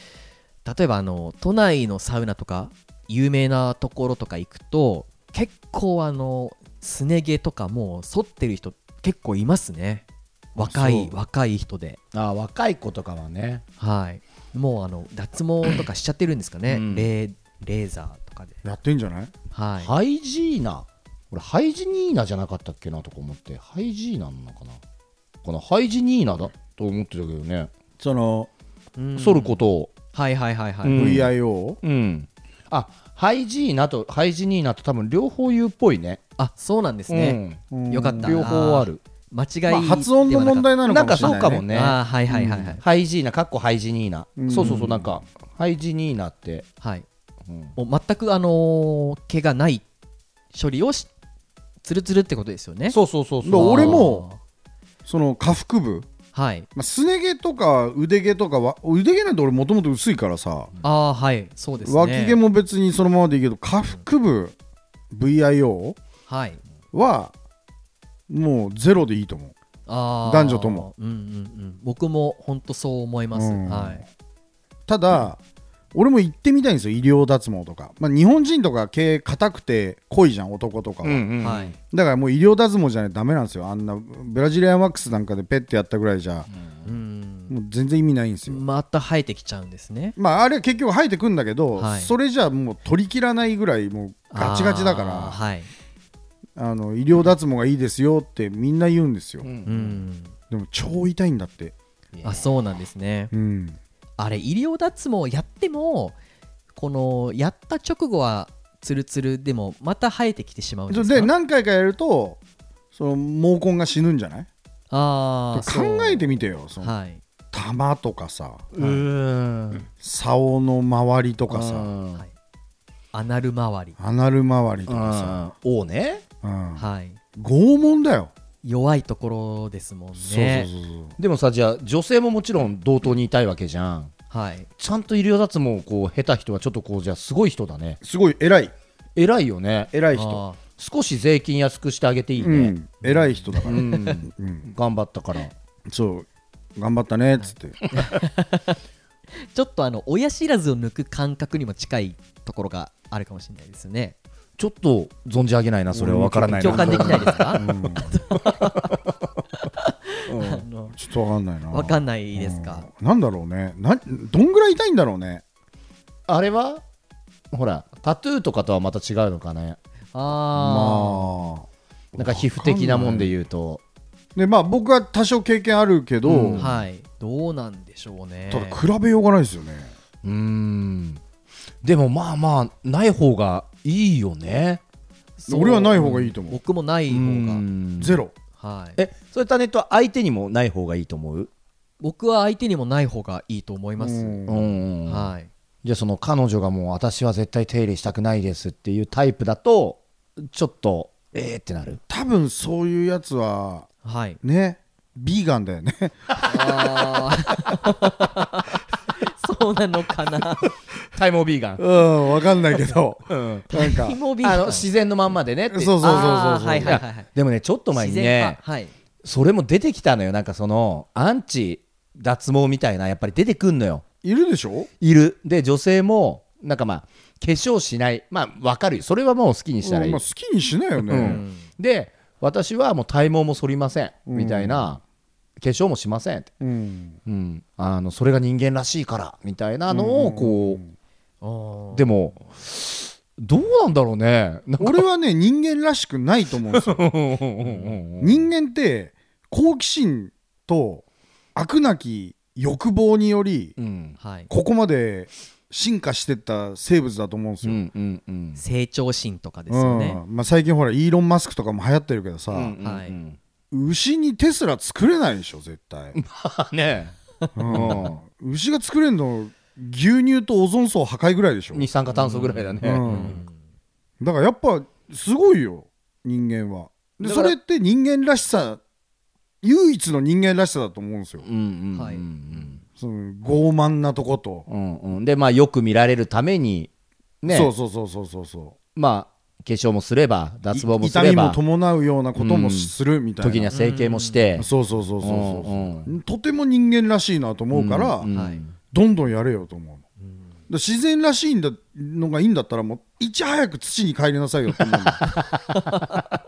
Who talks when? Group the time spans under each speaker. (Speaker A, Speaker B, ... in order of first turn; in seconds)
Speaker A: 0.6-10.0, 10.6-12.0, 13.8-18.6, 19.5-19.9, 29.0-31.1, 36.4-37.4, 37.9-42.8, 44.5-44.9, 46.8-47.0, 47.8-49.9, 50.5-51.1, 51.8-53.0, 53.5-54.4, 56.3-56.7, 60.8-62.4, 66.3-66.6, 69.9-74.0, 81.4-81.7, 86.8-87.5, 88.5-90.2, 91.8-92.1, 94.3-95.7, 99.7-100.3, 102.2-103.3, 104.2-106.1, 106.7-111.3, 114.9-116.3, 116.8-117.2, 123.1-124.0, 126.8-127.2, 128.6-130.7, 134.3-134.7, 140.1-140.6, 143.0-143.9, 147.4-148.8, 149.5-154.2, 156.6-159.0, 159.6-160.9, 161.7-162.8, 170.1-171.5, 176.6-178.8, 185.4-187.6, 188.6-189.0, 192.0-194.4, 195.1-195.5, 204.0-204.4, 206.4-210.7, 213.7-214.9, 216.0-217.3, 217.9-218.9, 231.2-231.7, 241.4-242.1, 254.2-254.5, 258.6-260.2, 262.8-263.1, 272.1-273.6, 281.9-282.2, 293.7-294.5, 298.3-298.6
Speaker B: 10.6-11.1, 18.6-19.3, 28.0-28.5, 30.9-31.8, 37.7-38.4, 39.7-41.6, 44.4-45.2, 53.4-54.2, 55.0-56.1, 56.7-60.7, 61.8-64.5, 65.1-66.0, 66.9-67.3, 68.3-69.5, 70.2-70.9, 73.3-74.0, 74.9-75.4, 75.9-81.2, 81.8-86.5, 87.5-88.6, 90.2-95.4, 96.5-99.5, 100.5-101.7, 103.3-103.8, 110.9-112.4, 112.9-114.5, 115.5-116.9, 117.5-118.7, 120.0-121.9, 124.0-125.5, 126.4-128.3, 130.2-131.2, 138.0-138.7, 139.9-140.4, 142.4-144.7, 145.9-147.8, 155.9-158.1, 160.9-165.4, 170.6-173.3, 174.3-176.7, 178.5-179.9, 185.5-186.6, 188.0-188.3, 194.0-194.8, 202.1-203.9, 204.4-206.3, 211.8-214.2, 215.7-217.0, 224.2-224.9, 229.8-231.4, 234.3-235.0, 236.6-237.2, 239.9-240.9, 244.8-247.1, 248.2-253.8, 254.5-257.8, 259.7-262.7, 263.7-266.2, 267.6-271.9, 272.8-273.4, 274.2-278.8, 279.6-281.4, 283.0-284.7, 287.5-288.8, 290.7-293.7, 294.6-298.3, 298.9-300.0, 300.7-305.2
Speaker C: 12.1-13.6, 16.7-17.1, 19.8-24.8, 25.4-27.7, 29.2-29.9, 30.8-36.2, 37.1-39.0, 40.9-46.7, 47.5-47.7, 52.9-54.0, 81.0-81.7, 86.5-86.9, 99.4-100.0, 102.1-102.5, 118.7-119.9, 121.5-122.2, 124.9-126.2, 131.2-134.1, 134.8-138.0, 139.2-139.9, 140.8-142.7, 143.6-145.5, 154.6-157.8, 160.3-160.6, 166.3-166.8, 167.5-169.8, 172.2-173.8, 176.2-176.8, 180.2-181.2, 181.8-184.8, 187.1-188.2, 188.9-191.5, 194.5-195.3, 195.8-202.0, 211.1-211.8, 213.3-213.7, 214.4-218.6, 219.2-224.0, 225.0-230.2, 231.0-235.0, 235.6-236.5, 237.2-240.8, 241.9-245.0, 246.7-248.4, 253.8-254.2, 257.6-258.6, 262.5-263.4, 266.1-267.1, 267.7-268.1, 271.7-273.4, 277.2-277.5, 281.4-282.8, 284.7-286.9, 287.4-287.7, 288.9-291.6, 292.4-294.7, 295.2-296.1, 297.7-298.7